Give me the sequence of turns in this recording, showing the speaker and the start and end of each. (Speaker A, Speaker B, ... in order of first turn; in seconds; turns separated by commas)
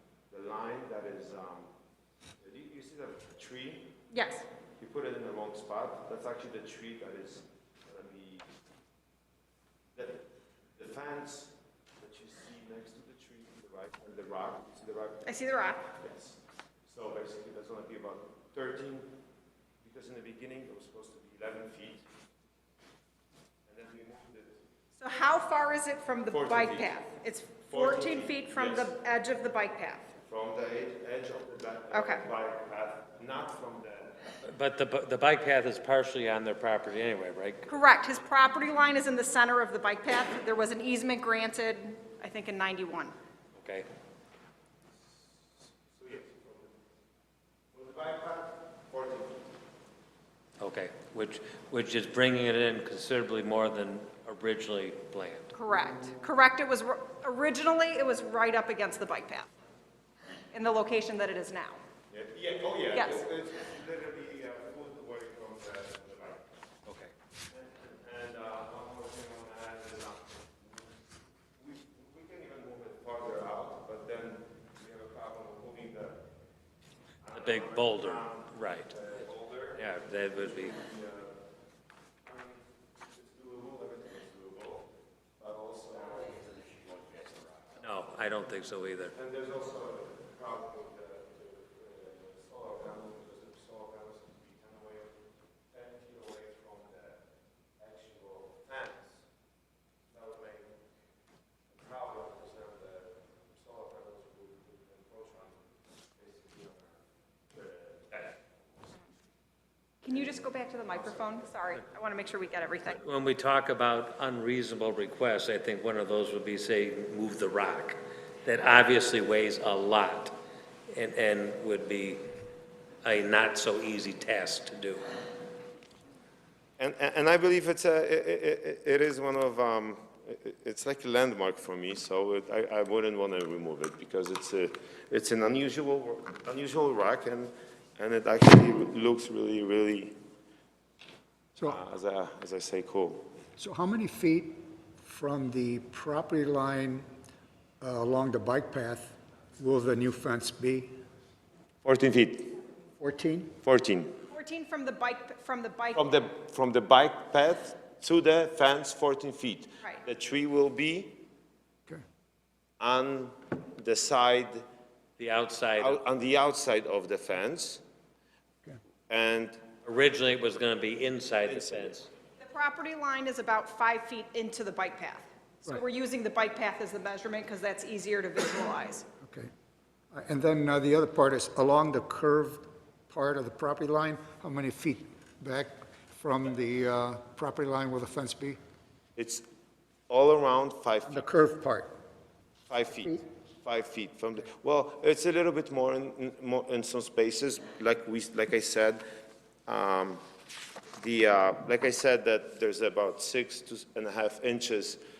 Speaker A: 0.3-1.7, Speaker A: 2.4-3.9, Speaker B: 4.1-4.4, Speaker A: 4.8-8.4, Speaker A: 9.9-10.3, Speaker A: 10.8-15.3, Speaker B: 15.2-15.8, Speaker A: 15.9-19.1, Speaker A: 19.8-22.1, Speaker A: 23.7-24.6, Speaker B: 25.0-30.1, Speaker A: 26.3-26.9, Speaker A: 27.7-28.9, Speaker A: 30.2-34.2, Speaker B: 31.9-32.2, Speaker C: 34.5-37.7, Speaker B: 37.7-43.1, Speaker C: 43.5-43.9, Speaker A: 45.9-46.7, Speaker A: 47.7-49.5, Speaker C: 50.6-55.5, Speaker B: 55.5-59.5, Speaker B: 60.5-61.8, Speaker A: 62.1-66.5, Speaker B: 62.9-63.2, Speaker C: 66.9-67.1, Speaker A: 67.5-70.9, Speaker A: 71.6-76.2, Speaker A: 77.2-81.4, Speaker C: 77.3-78.9, Speaker C: 79.8-80.8, Speaker A: 82.2-84.9, Speaker A: 85.4-87.6, Speaker C: 87.8-89.1, Speaker A: 89.1-97.2, Speaker A: 97.8-99.2, Speaker A: 100.1-100.8, Speaker A: 101.7-108.4, Speaker B: 110.0-113.0, Speaker A: 110.1-111.5, Speaker C: 112.9-120.3, Speaker C: 120.9-122.2, Speaker C: 123.0-125.0, Speaker A: 126.8-140.2, Speaker A: 141.6-143.3, Speaker D: 143.6-147.1, Speaker D: 147.8-150.9, Speaker A: 151.8-152.5, Speaker D: 153.0-153.5, Speaker A: 153.6-154.2, Speaker B: 154.3-156.0, Speaker A: 155.9-161.2, Speaker A: 162.8-164.7, Speaker C: 165.2-166.0, Speaker A: 165.8-167.8, Speaker A: 169.1-169.6, Speaker C: 169.8-172.1, Speaker A: 171.4-172.0, Speaker B: 172.4-179.1, Speaker D: 179.2-179.5, Speaker D: 180.1-188.6, Speaker A: 189.2-189.5, Speaker A: 190.1-191.3, Speaker D: 191.0-191.9, Speaker A: 192.7-199.0, Speaker A: 199.7-200.2, Speaker A: 201.0-205.0